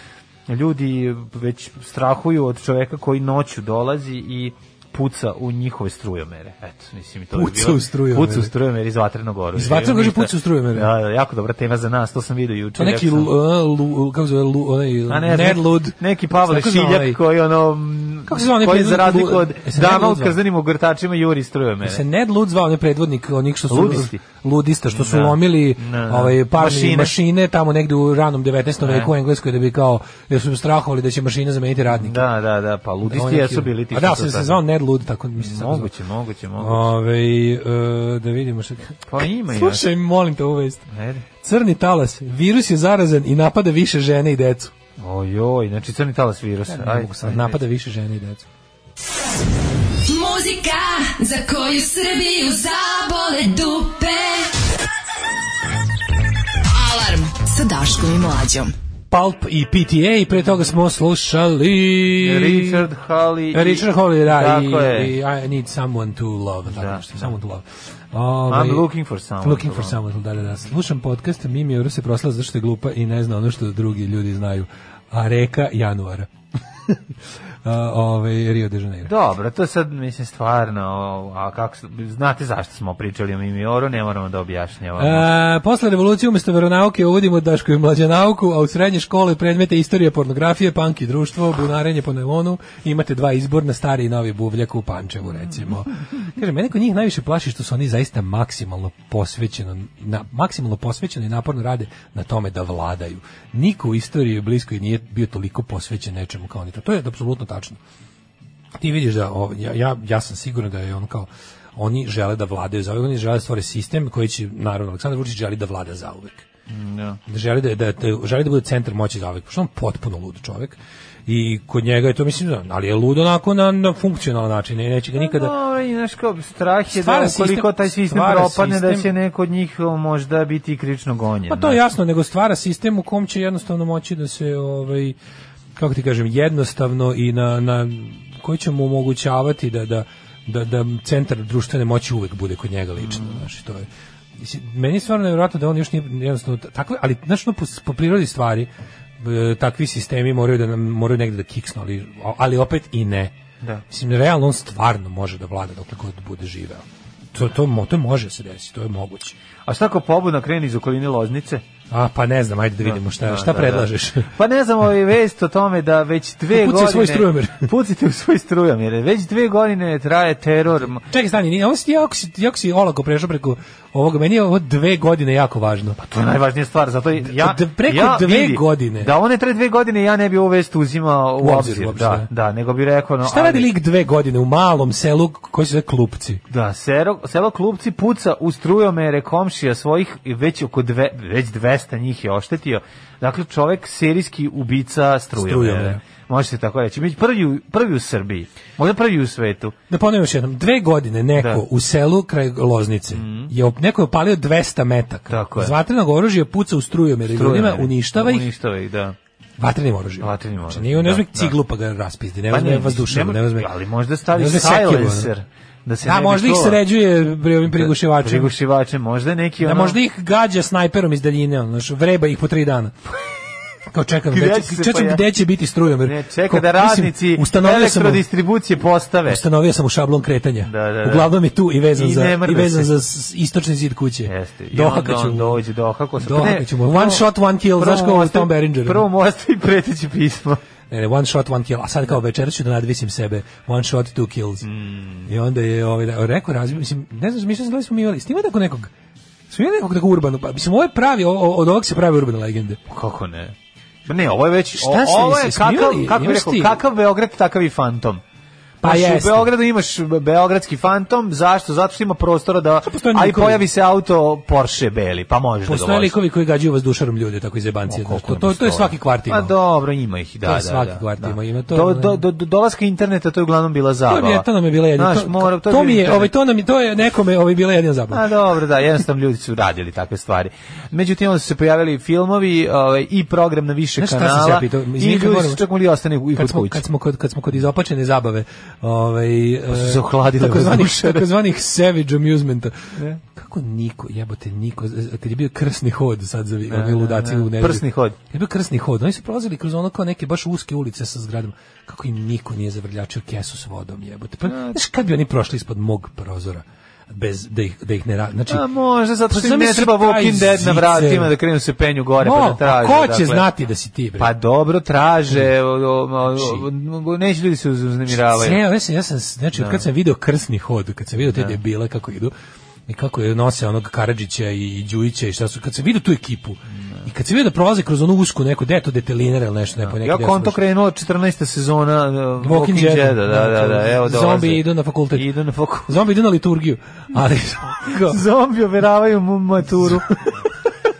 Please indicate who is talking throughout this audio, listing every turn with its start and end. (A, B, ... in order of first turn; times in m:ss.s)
0:00.5-0:13.3 A
0:07.3-0:08.5 B
0:09.5-0:10.9 B
0:12.8-0:17.2 B
0:15.1-0:22.0 A
0:18.3-0:20.4 B
0:21.8-0:32.2 B
0:23.7-0:24.2 A
0:24.9-0:27.1 A
0:28.8-0:29.1 A
0:32.0-0:34.6 A
0:33.1-0:35.9 B
0:35.4-0:36.9 A
0:36.6-0:40.9 B
0:39.1-0:39.8 A
0:40.9-0:41.2 A
0:41.4-0:44.7 B
0:45.0-0:47.6 A
0:46.7-0:48.4 B
0:50.1-0:54.5 C
0:56.7-0:58.7 C
0:59.1-1:02.8 B
1:02.2-1:05.1 A
1:03.5-1:08.9 B
1:06.7-1:07.3 A
1:08.5-1:10.0 A
1:09.4-1:16.3 B
1:17.6-1:19.1 B
1:19.0-1:25.3 A
1:25.0-1:47.8 B
1:48.8-1:56.4 B
1:56.7-1:57.2 A
1:57.2-2:05.5 B
2:05.2-2:11.8 A
2:06.9-2:09.1 B
2:11.5-2:15.2 B
2:15.8-2:33.3 B
2:23.0-2:23.4 A
2:33.9-2:39.3 B
2:39.6-2:41.6 A
2:41.9-2:44.3 B
2:42.8-2:51.0 A
2:46.5-2:47.7 B
2:50.8-2:56.0 B
2:56.0-3:03.7 A
2:57.2-2:59.1 B
3:01.4-3:02.3 B
3:03.2-3:06.4 B
3:06.5-3:19.7 A
3:15.4-3:16.0 B
3:19.9-3:28.5 B
3:21.4-3:21.6 A
3:23.1-3:23.5 A
3:25.3-3:25.7 A
3:27.3-3:29.2 A
3:29.6-3:33.7 B
3:30.2-3:31.6 A
3:32.5-3:36.8 A
3:34.3-3:35.3 B
3:36.0-3:38.5 B
3:37.7-3:40.0 A
3:39.6-3:43.0 B
3:43.9-3:48.2 B
3:44.3-3:45.2 A
3:46.0-3:49.4 A
3:49.3-3:55.6 B
3:50.6-3:51.3 A
3:51.9-3:52.9 A
3:54.2-4:00.6 A
3:56.2-3:59.0 B
4:00.9-4:04.6 B
4:04.6-4:05.3 A
4:05.3-4:08.9 B
4:09.5-4:12.8 B
4:12.9-4:13.5 A
4:14.1-4:18.2 A
4:14.8-4:16.8 B
4:18.8-4:19.5 B
4:18.8-4:26.1 A
4:22.8-4:23.6 B
4:25.6-4:29.5 B
4:27.9-4:36.3 A
4:30.4-4:32.2 B
4:34.1-4:38.3 B
4:38.1-4:46.8 A
4:44.0-4:45.6 B
4:46.4-5:08.6 B
4:49.7-4:51.3 A
4:56.7-4:58.2 A
5:04.5-5:04.8 A
5:08.5-5:13.4 A
5:09.3-5:11.3 B
5:12.2-5:14.3 B
5:14.2-5:18.6 A
5:16.3-5:16.6 B
5:18.1-5:22.3 B
5:19.6-5:19.8 A
5:21.2-5:21.6 A
5:22.9-5:30.6 B
5:29.8-5:35.9 A
5:32.4-5:35.3 B
5:35.9-5:38.2 B
5:37.8-5:40.2 A
5:39.8-5:40.3 B